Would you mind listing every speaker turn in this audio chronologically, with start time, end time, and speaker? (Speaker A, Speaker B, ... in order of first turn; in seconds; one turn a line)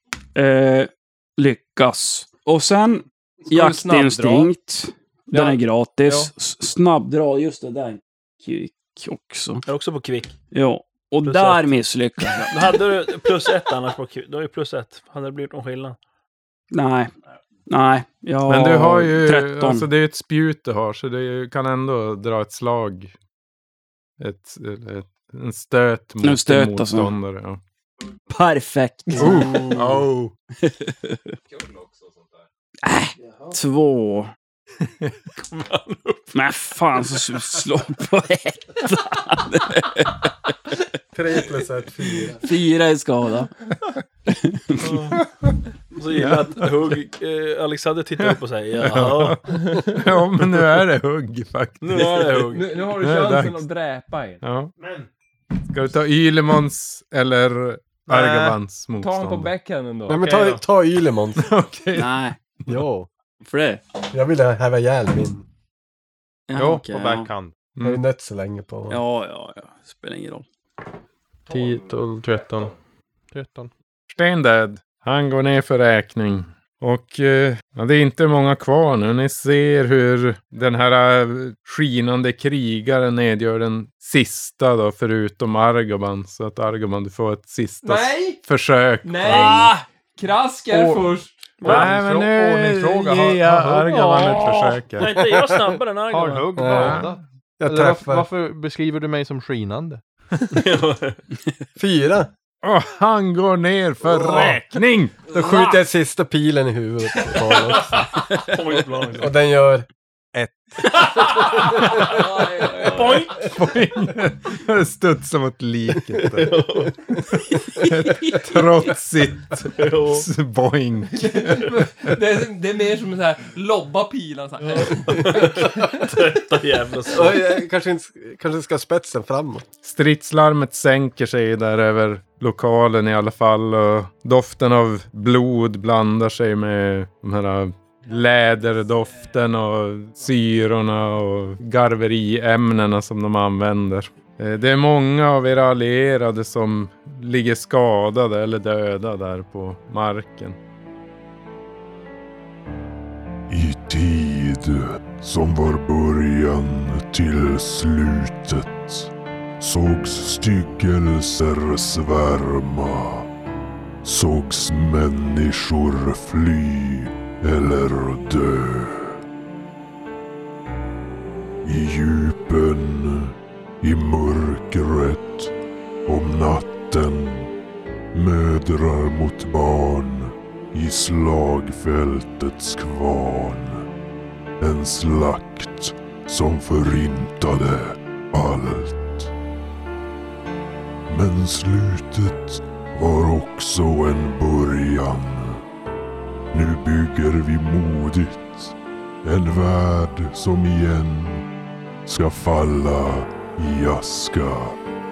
Speaker A: 0.3-9.6
Speaker B: 3.5-4.5
Speaker B: 5.3-6.3
Speaker C: 9.7-10.3
Speaker A: 10.5-12.7
Speaker C: 11.2-11.8
Speaker C: 12.4-16.0
Speaker A: 16.7-17.1
Speaker A: 17.7-19.9
Speaker D: 18.5-23.1
Speaker D: 24.2-27.6
Speaker A: 26.2-27.1
Speaker A: 28.3-30.0
Speaker D: 29.2-30.3
Speaker A: 30.6-31.3
Speaker B: 31.5-32.1
Speaker A: 32.8-34.3
Speaker C: 33.3-33.5
Speaker C: 35.4-36.3
Speaker A: 36.3-40.5
Speaker E: 41.1-42.4
Speaker A: 42.4-43.5
Speaker A: 44.3-45.0
Speaker C: 44.8-45.2
Speaker D: 45.2-45.5
Speaker C: 45.9-49.9
Speaker D: 46.1-46.7
Speaker D: 48.2-52.2
Speaker C: 51.8-52.8
Speaker B: 51.9-54.4
Speaker D: 52.9-53.6
Speaker D: 54.4-54.7
Speaker F: 54.8-55.0
Speaker D: 55.6-59.5
Speaker F: 58.1-58.6
Speaker B: 59.0-60.5
Speaker E: 60.1-61.5
Speaker F: 60.2-60.6
Speaker D: 61.4-62.8
Speaker A: 61.9-62.4
Speaker E: 62.7-63.1
Speaker A: 63.4-63.8
Speaker E: 64.1-65.5
Speaker A: 66.5-67.3
Speaker F: 66.5-67.5
Speaker E: 67.8-69.0
Speaker A: 68.9-70.4
Speaker F: 71.5-72.7
Speaker F: 73.3-73.7
Speaker D: 74.1-89.7
Speaker B: 87.8-88.4
Speaker B: 89.0-91.5
Speaker F: 90.7-94.3
Speaker C: 91.6-92.0
Speaker D: 91.6-95.2
Speaker C: 93.8-96.8
Speaker F: 96.1-100.0
Speaker E: 96.5-97.1
Speaker D: 96.8-97.1
Speaker E: 97.6-98.3
Speaker C: 100.5-101.2
Speaker E: 101.8-102.3
Speaker D: 102.6-105.3
Speaker C: 104.1-104.8
Speaker E: 105.3-108.1
Speaker C: 107.7-109.3
Speaker E: 109.2-111.2
Speaker C: 111.2-113.5
Speaker B: 111.3-113.4
Speaker E: 111.8-112.1
Speaker D: 113.3-116.6
Speaker C: 116.2-117.2
Speaker D: 117.5-122.2
Speaker C: 119.6-120.3
Speaker B: 121.1-126.4
Speaker C: 124.6-127.4
Speaker E: 127.1-129.7
Speaker D: 129.8-150.6
Speaker G: 153.5-163.3
Speaker G: 164.0-169.2
Speaker G: 171.6-175.5
Speaker G: 176.1-177.5
Speaker G: 178.1-183.9
Speaker G: 184.6-189.3
Speaker G: 191.1-195.6
Speaker G: 196.5-201.5
Speaker G: 202.1-204.8